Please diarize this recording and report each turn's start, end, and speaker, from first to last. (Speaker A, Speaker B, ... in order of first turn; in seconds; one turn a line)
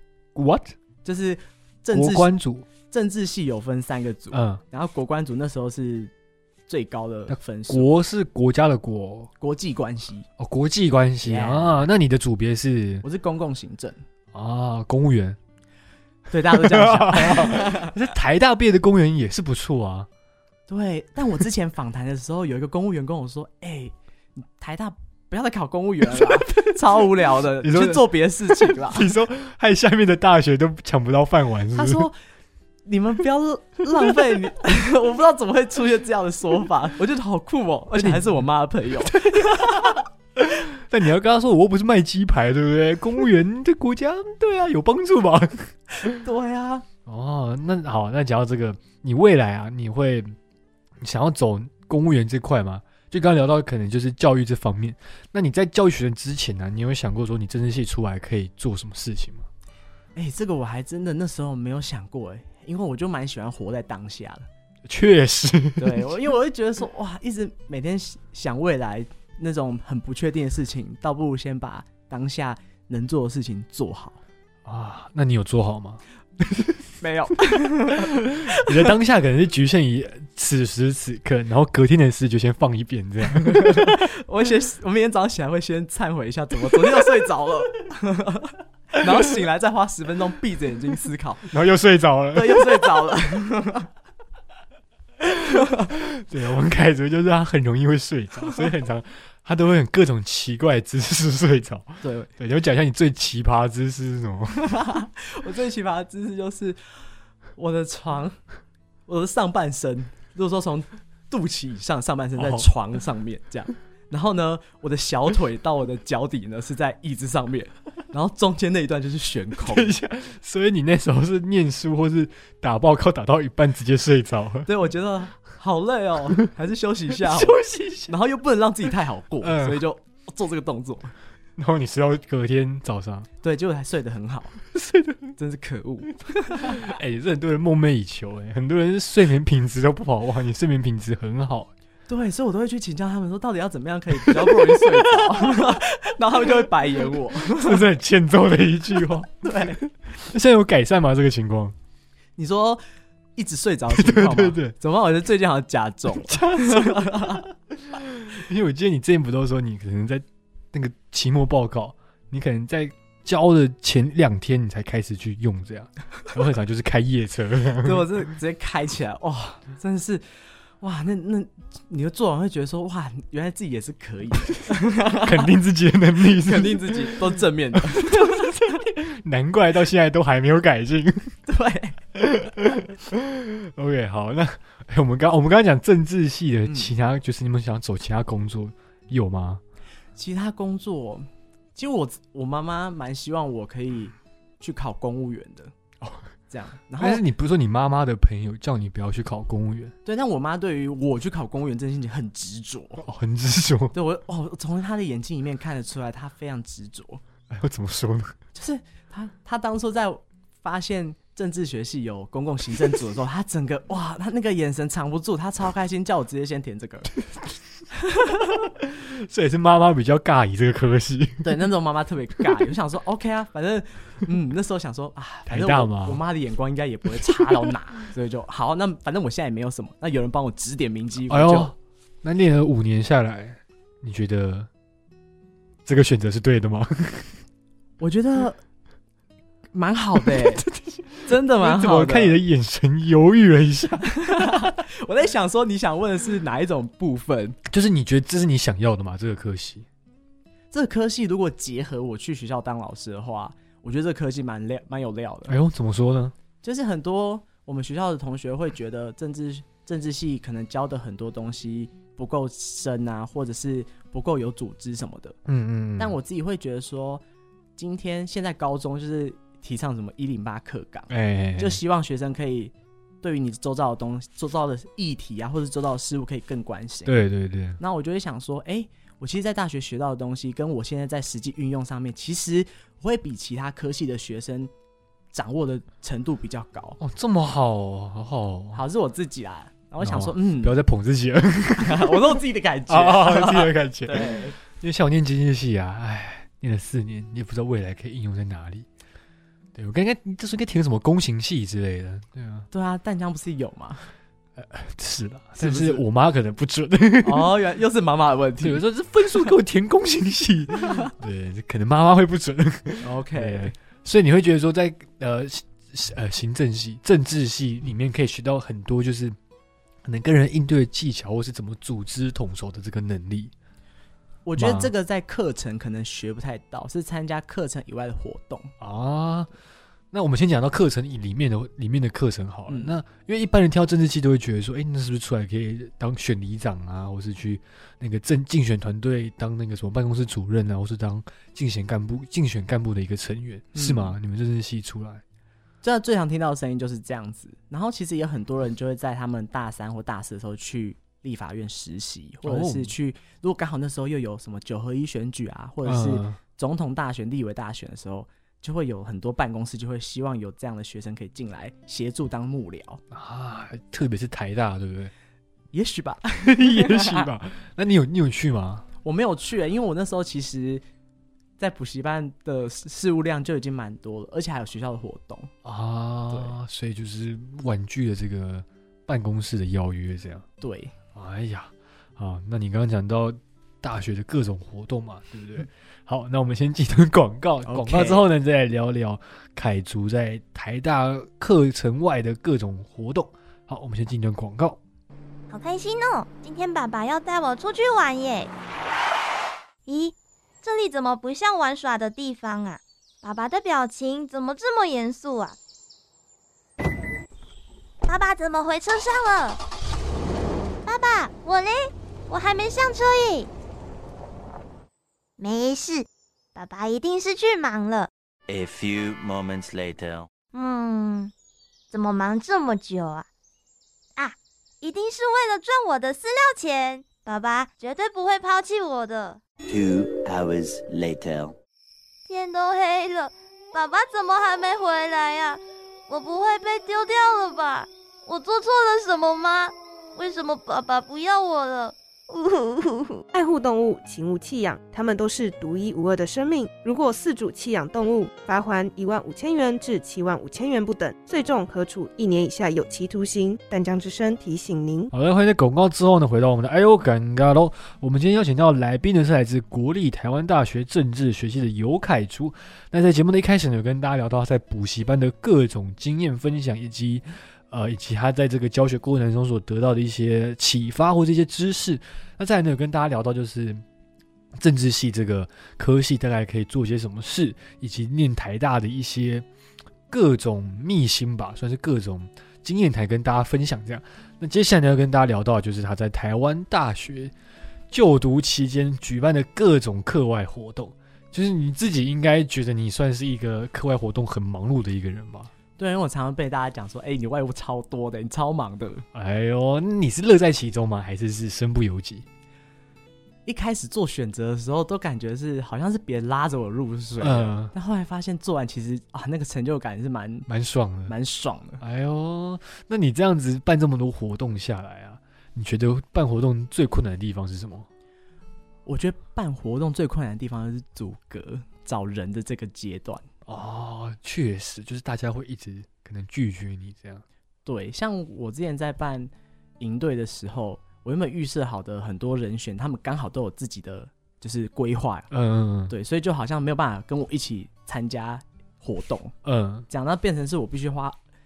Speaker A: 0.3-0.8
Speaker B: 1.0-2.3
Speaker A: 1.9-2.7
Speaker B: 2.9-6.1
Speaker A: 4.3-4.6
Speaker B: 6.7-7.9
Speaker A: 7.3-9.3
Speaker B: 9.4-10.3
Speaker A: 10.4-13.0
Speaker B: 11.2-11.8
Speaker B: 13.0-14.0
Speaker A: 14.3-15.4
Speaker B: 16.3-17.9
Speaker A: 16.5-20.1
Speaker B: 20.7-29.1
Speaker A: 26.2-26.7
Speaker A: 27.6-32.1
Speaker B: 31.7-32.2
Speaker B: 32.9-40.0
Speaker A: 37.9-38.3
Speaker A: 39.1-46.2
Speaker B: 46.0-46.8
Speaker A: 47.0-50.4
Speaker A: 51.0-59.5
Speaker B: 60.1-64.5
Speaker A: 64.8-66.2
Speaker B: 65.8-74.2
Speaker A: 74.6-76.8
Speaker B: 77.0-78.9
Speaker A: 78.2-84.1
Speaker B: 83.5-91.5
Speaker A: 91.5-93.1
Speaker B: 92.3-93.9
Speaker A: 95.2-104.7
Speaker B: 102.0-102.3
Speaker B: 104.7-106.8
Speaker B: 107.5-108.4
Speaker B: 109.1-119.9
Speaker A: 112.4-112.7
Speaker A: 119.6-124.7
Speaker B: 124.7-131.1
Speaker A: 127.2-128.1
Speaker A: 129.4-129.8
Speaker A: 131.6-133.3
Speaker B: 133.4-134.6
Speaker A: 134.7-135.3
Speaker B: 135.4-136.9
Speaker A: 136.5-141.7
Speaker B: 142.1-147.8
Speaker A: 144.3-145.7
Speaker A: 147.4-151.7
Speaker B: 149.4-149.8
Speaker B: 152.4-152.8
Speaker B: 153.3-157.4
Speaker A: 153.9-154.7
Speaker A: 156.3-168.1
Speaker B: 167.8-170.2
Speaker B: 170.8-175.5
Speaker A: 175.2-181.3
Speaker B: 176.3-178.6
Speaker B: 181.5-182.0
Speaker A: 182.2-189.6
Speaker B: 186.7-186.9
Speaker B: 190.2-195.7
Speaker B: 196.5-197.2
Speaker A: 197.0-199.9
Speaker B: 200.0-203.0
Speaker A: 203.0-203.9
Speaker B: 203.9-207.2
Speaker A: 207.5-208.3
Speaker B: 208.5-217.1
Speaker A: 218.8-221.6
Speaker B: 221.4-231.7
Speaker A: 225.5-226.2
Speaker A: 227.3-227.6
Speaker A: 231.3-234.7
Speaker A: 235.8-237.4
Speaker B: 238.0-238.6
Speaker B: 239.7-240.7
Speaker A: 240.2-244.7
Speaker B: 241.2-242.4
Speaker B: 244.1-247.6
Speaker A: 247.7-249.8
Speaker B: 250.7-255.6
Speaker A: 255.5-256.3
Speaker B: 256.6-265.4
Speaker A: 265.4-266.2
Speaker B: 266.0-267.2
Speaker B: 267.8-277.1
Speaker A: 271.1-271.8
Speaker A: 277.1-277.8
Speaker B: 277.8-284.7
Speaker B: 285.3-287.0
Speaker A: 287.0-288.8
Speaker B: 288.7-290.8
Speaker A: 290.0-298.9
Speaker B: 291.8-294.6
Speaker A: 299.7-302.7
Speaker B: 302.7-304.0
Speaker A: 304.6-307.5
Speaker B: 305.6-306.0
Speaker B: 307.2-308.8
Speaker A: 308.6-319.4
Speaker B: 310.8-311.1
Speaker B: 313.0-313.7
Speaker A: 320.0-323.5
Speaker B: 324.4-328.7
Speaker A: 324.6-324.9
Speaker A: 328.8-329.5
Speaker A: 330.1-345.2
Speaker B: 343.7-344.1
Speaker B: 345.8-363.0
Speaker A: 352.4-352.9
Speaker A: 355.8-356.4
Speaker A: 363.1-365.1
Speaker B: 365.7-367.3
Speaker A: 366.4-368.9
Speaker B: 369.0-370.8
Speaker B: 371.6-375.5
Speaker A: 375.6-380.4
Speaker B: 380.6-380.9
Speaker A: 381.1-394.8
Speaker B: 387.6-388.2
Speaker C: 395.5-398.5
Speaker C: 399.9-405.6
Speaker C: 408.1-409.6
Speaker C: 410.9-413.5
Speaker C: 415.4-418.1
Speaker D: 418.5-420.3
Speaker C: 420.5-421.3
Speaker C: 421.9-423.3
Speaker C: 424.2-429.4
Speaker D: 429.7-431.6
Speaker C: 432.2-443.2
Speaker E: 443.3-455.1
Speaker A: 455.1-473.8
Speaker A: 474.6-479.4
Speaker A: 480.1-487.3
Speaker A: 487.9-495.5
Speaker B: 495.8-499.0
Speaker A: 499.1-502.2
Speaker B: 503.4-510.5
Speaker A: 507.2-507.7
Speaker A: 510.5-511.1
Speaker B: 511.1-511.8
Speaker A: 511.8-517.9
Speaker B: 518.9-523.2
Speaker A: 523.5-527.2
Speaker B: 527.6-535.3
Speaker A: 535.3-535.9
Speaker B: 535.9-539.3
Speaker A: 539.4-539.9
Speaker B: 539.9-541.2